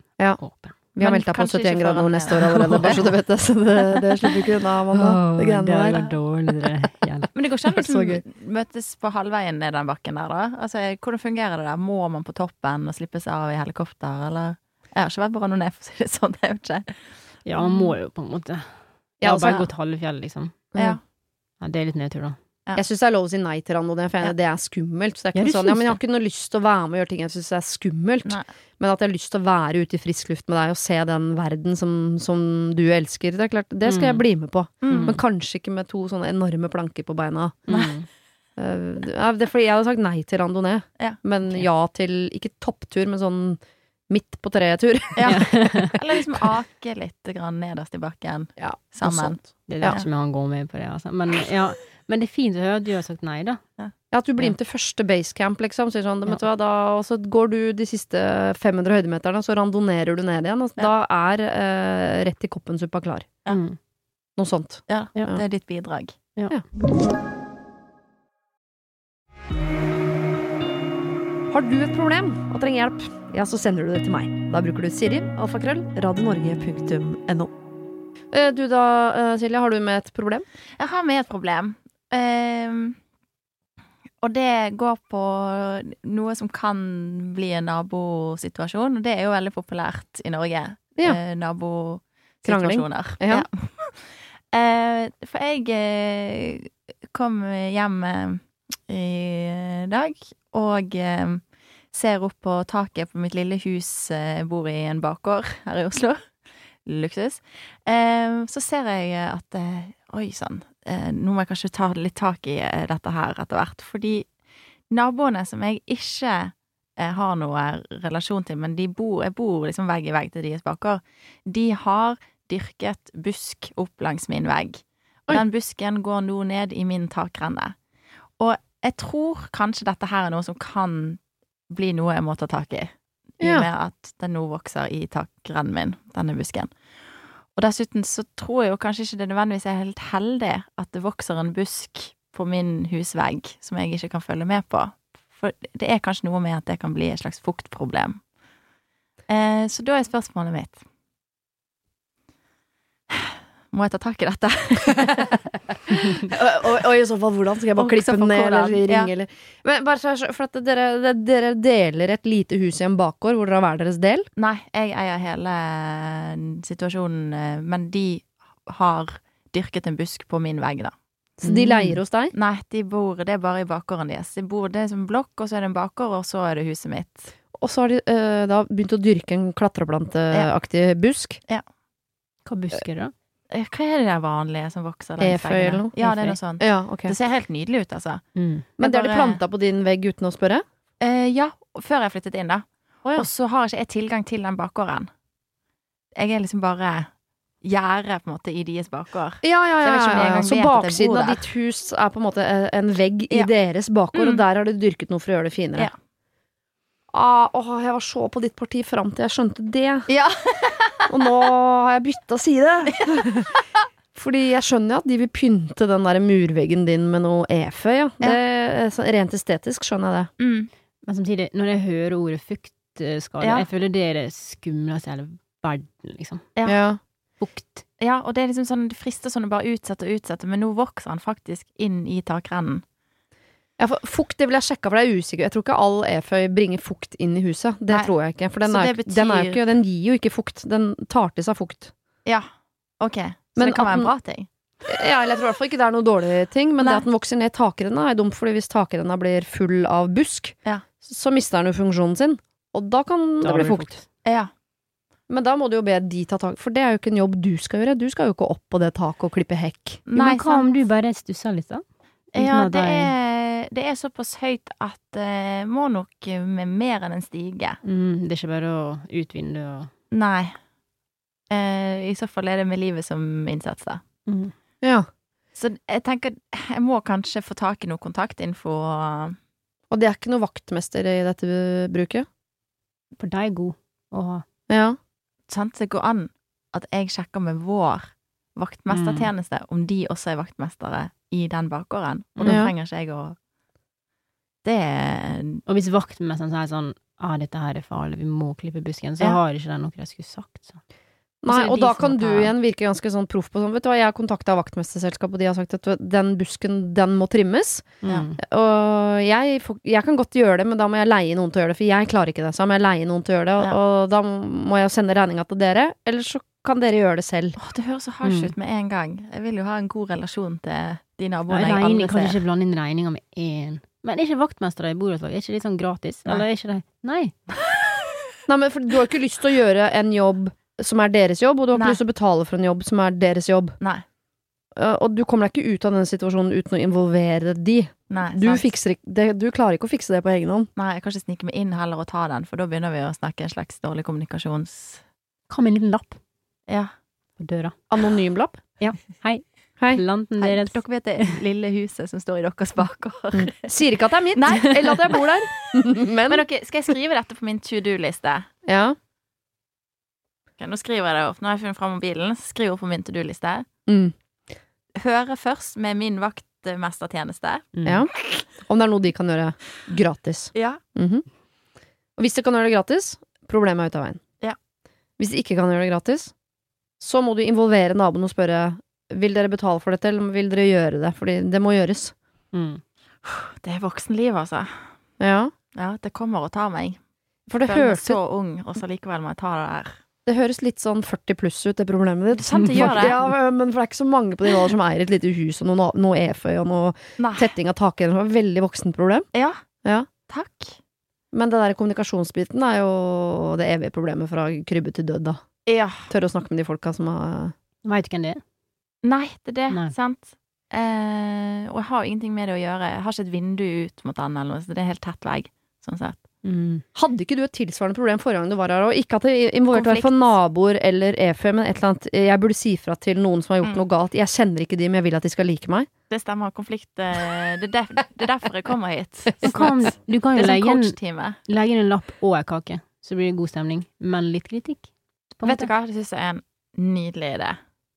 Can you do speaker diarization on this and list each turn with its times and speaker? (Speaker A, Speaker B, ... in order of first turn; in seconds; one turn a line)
Speaker A: 0.4-0.7
Speaker B: 0.9-6.1
Speaker C: 1.0-3.1
Speaker A: 2.5-3.1
Speaker A: 4.9-7.3
Speaker C: 7.3-17.0
Speaker B: 7.7-8.2
Speaker A: 17.4-18.7
Speaker C: 17.6-17.9
Speaker B: 19.2-19.6
Speaker A: 19.2-20.6
Speaker B: 20.7-21.0
Speaker A: 21.6-22.4
Speaker B: 22.7-37.6
Speaker A: 25.3-26.0
Speaker A: 33.9-34.2
Speaker C: 34.8-35.1
Speaker A: 34.9-35.2
Speaker A: 37.7-38.1
Speaker B: 38.6-45.6
Speaker C: 45.1-50.0
Speaker A: 45.2-46.0
Speaker B: 48.6-50.0
Speaker A: 49.7-53.6
Speaker B: 54.1-63.3
Speaker A: 63.5-63.8
Speaker B: 64.4-65.4
Speaker C: 64.9-66.2
Speaker A: 66.3-66.6
Speaker B: 71.5-77.5
Speaker B: 78.3-80.4
Speaker C: 80.8-83.0
Speaker C: 84.2-106.2
Speaker B: 92.4-93.5
Speaker C: 106.8-114.3
Speaker C: 114.9-127.7
Speaker C: 128.4-136.7
Speaker B: 133.4-133.7
Speaker C: 137.6-148.2
Speaker C: 149.3-150.8
Speaker C: 153.1-155.5
Speaker B: 155.9-164.3
Speaker C: 157.8-159.1
Speaker C: 164.4-170.9
Speaker B: 171.4-172.3
Speaker A: 171.4-172.0
Speaker C: 172.3-177.3
Speaker B: 177.5-181.4
Speaker A: 182.4-183.1
Speaker C: 183.5-188.2
Speaker B: 185.2-185.9
Speaker A: 185.9-186.4
Speaker B: 186.6-187.1
Speaker A: 188.3-188.7
Speaker B: 188.8-190.6
Speaker C: 188.8-189.4
Speaker C: 191.0-195.1
Speaker C: 196.2-197.1
Speaker C: 197.6-201.4
Speaker B: 199.4-205.9
Speaker C: 204.1-204.4
Speaker B: 207.1-210.1
Speaker C: 210.1-211.1
Speaker B: 211.1-213.5
Speaker B: 214.1-220.3
Speaker C: 220.4-220.7
Speaker A: 221.0-226.5
Speaker C: 223.4-223.7
Speaker B: 226.6-227.0
Speaker A: 227.4-227.8
Speaker C: 228.0-232.8
Speaker B: 233.8-241.9
Speaker C: 238.6-239.6
Speaker C: 243.0-244.5
Speaker B: 243.6-244.1
Speaker B: 244.8-254.0
Speaker A: 253.4-254.0
Speaker C: 254.2-254.5
Speaker B: 255.3-260.0
Speaker C: 260.1-260.7
Speaker A: 260.1-263.1
Speaker C: 262.3-267.8
Speaker A: 267.8-269.9
Speaker C: 270.1-270.6
Speaker C: 271.5-274.0
Speaker A: 274.2-274.5
Speaker C: 275.6-279.4
Speaker B: 279.9-282.3
Speaker A: 283.1-284.4
Speaker B: 284.7-285.0
Speaker C: 285.5-293.4
Speaker A: 288.9-289.3
Speaker A: 292.4-292.6
Speaker B: 292.4-292.7
Speaker C: 294.6-295.6
Speaker A: 295.6-300.8
Speaker B: 301.4-317.6
Speaker A: 301.5-302.5
Speaker A: 308.0-308.4
Speaker C: 317.6-322.4
Speaker A: 318.2-318.5
Speaker A: 321.5-327.3
Speaker B: 328.5-333.8
Speaker B: 334.8-340.7
Speaker C: 338.1-338.7
Speaker C: 340.8-345.0
Speaker A: 345.5-346.2
Speaker A: 347.4-347.8
Speaker B: 347.9-348.6
Speaker A: 348.8-351.4
Speaker C: 350.4-353.7
Speaker B: 353.3-356.4
Speaker C: 354.3-358.5
Speaker B: 358.6-358.9
Speaker C: 360.6-363.6
Speaker B: 363.9-364.1
Speaker C: 364.9-367.7
Speaker A: 367.7-368.0
Speaker B: 367.8-371.2
Speaker C: 370.5-370.8
Speaker B: 372.2-374.2
Speaker B: 375.2-376.3
Speaker B: 377.0-382.1
Speaker A: 382.5-382.8
Speaker C: 383.2-384.8
Speaker B: 385.2-385.5
Speaker C: 385.7-387.0
Speaker B: 387.5-388.2
Speaker C: 387.6-389.9
Speaker B: 390.2-399.2
Speaker C: 392.4-393.2
Speaker A: 392.6-393.3
Speaker C: 397.2-397.5
Speaker C: 399.3-399.6
Speaker C: 400.3-400.8
Speaker B: 401.3-405.4
Speaker C: 405.7-406.1
Speaker B: 406.1-407.5
Speaker A: 407.8-408.4
Speaker C: 409.0-416.2
Speaker A: 416.4-416.8
Speaker B: 416.9-425.9
Speaker C: 419.7-420.3
Speaker C: 426.1-429.8
Speaker A: 429.4-434.9
Speaker C: 430.4-431.4
Speaker A: 435.4-435.7
Speaker C: 435.4-437.6